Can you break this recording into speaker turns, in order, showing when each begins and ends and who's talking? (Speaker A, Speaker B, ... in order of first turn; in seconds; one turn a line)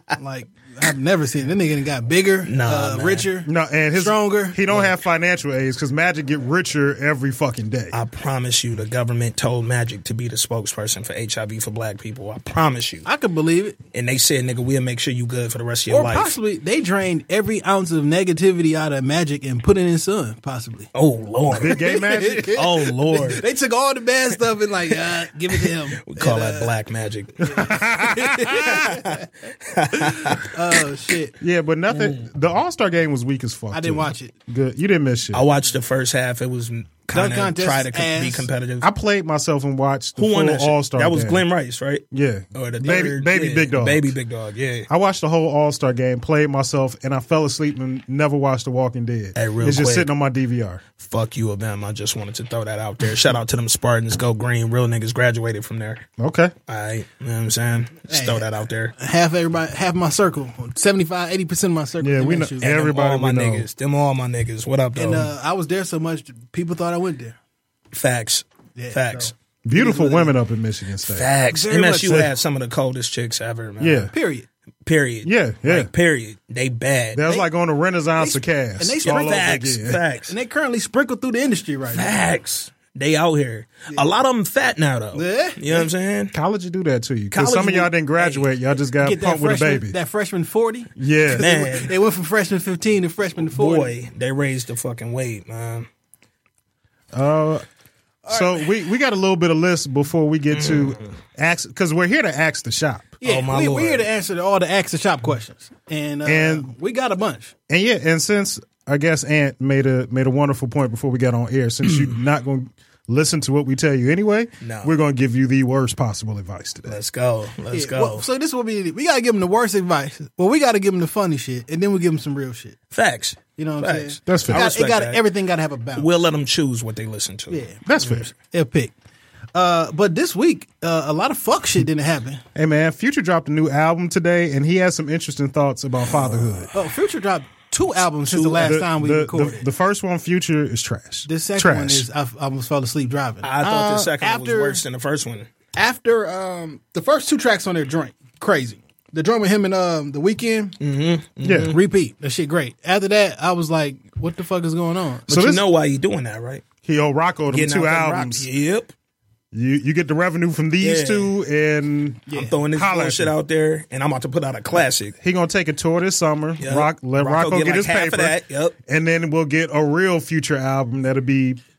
Speaker A: 0.2-4.6
Speaker B: 2.5-3.3
Speaker C: 3.5-8.0
Speaker B: 7.9-13.1
Speaker A: 13.0-13.8
Speaker B: 13.9-16.4
Speaker A: 15.9-20.9
Speaker B: 20.9-21.8
Speaker C: 21.5-22.6
Speaker A: 21.7-26.7
Speaker B: 22.5-23.4
Speaker B: 24.9-27.7
Speaker A: 27.4-29.2
Speaker C: 27.5-28.9
Speaker B: 28.5-30.5
Speaker A: 30.1-31.3
Speaker C: 31.4-35.5
Speaker B: 31.9-32.2
Speaker A: 33.7-34.3
Speaker B: 35.3-38.9
Speaker A: 37.1-38.5
Speaker C: 38.8-41.4
Speaker B: 40.2-44.9
Speaker C: 42.1-44.1
Speaker C: 44.9-50.8
Speaker B: 49.4-50.1
Speaker B: 51.0-56.0
Speaker C: 56.2-56.5
Speaker B: 56.7-58.9
Speaker A: 58.1-62.8
Speaker C: 62.0-63.7
Speaker B: 62.6-65.3
Speaker A: 65.0-67.3
Speaker B: 67.9-69.3
Speaker A: 68.8-70.3
Speaker C: 69.6-71.3
Speaker B: 71.1-74.1
Speaker A: 71.5-72.3
Speaker C: 72.0-72.3
Speaker C: 73.8-74.1
Speaker A: 74.1-74.5
Speaker B: 74.8-77.2
Speaker C: 75.2-75.9
Speaker C: 77.1-80.0
Speaker A: 78.2-79.6
Speaker B: 79.0-80.3
Speaker A: 80.2-82.1
Speaker B: 81.9-86.3
Speaker A: 85.1-85.9
Speaker C: 86.3-90.0
Speaker B: 87.3-88.5
Speaker A: 89.0-93.9
Speaker C: 91.0-91.5
Speaker B: 91.3-91.9
Speaker B: 93.4-95.9
Speaker C: 97.1-97.6
Speaker A: 98.3-98.7
Speaker C: 98.3-103.2
Speaker B: 100.5-101.1
Speaker A: 103.2-107.5
Speaker B: 103.2-104.0
Speaker C: 106.2-106.7
Speaker C: 107.7-117.0
Speaker B: 114.6-114.9
Speaker B: 116.9-118.2
Speaker A: 117.7-122.8
Speaker B: 122.9-125.2
Speaker A: 123.6-126.1
Speaker C: 124.3-124.7
Speaker B: 126.0-128.3
Speaker A: 127.5-127.8
Speaker C: 127.8-128.3
Speaker A: 128.4-128.9
Speaker A: 129.5-132.4
Speaker C: 132.5-136.7
Speaker A: 136.7-139.7
Speaker C: 138.3-142.1
Speaker A: 141.3-144.8
Speaker B: 143.4-145.5
Speaker A: 145.8-150.8
Speaker B: 150.8-151.8
Speaker C: 151.4-151.8
Speaker A: 151.6-155.3
Speaker C: 155.3-155.6
Speaker B: 155.3-156.6
Speaker C: 156.8-158.5
Speaker B: 157.5-158.9
Speaker C: 159.5-163.3
Speaker B: 160.8-161.3
Speaker B: 162.3-165.2
Speaker C: 165.2-171.6
Speaker B: 166.6-168.7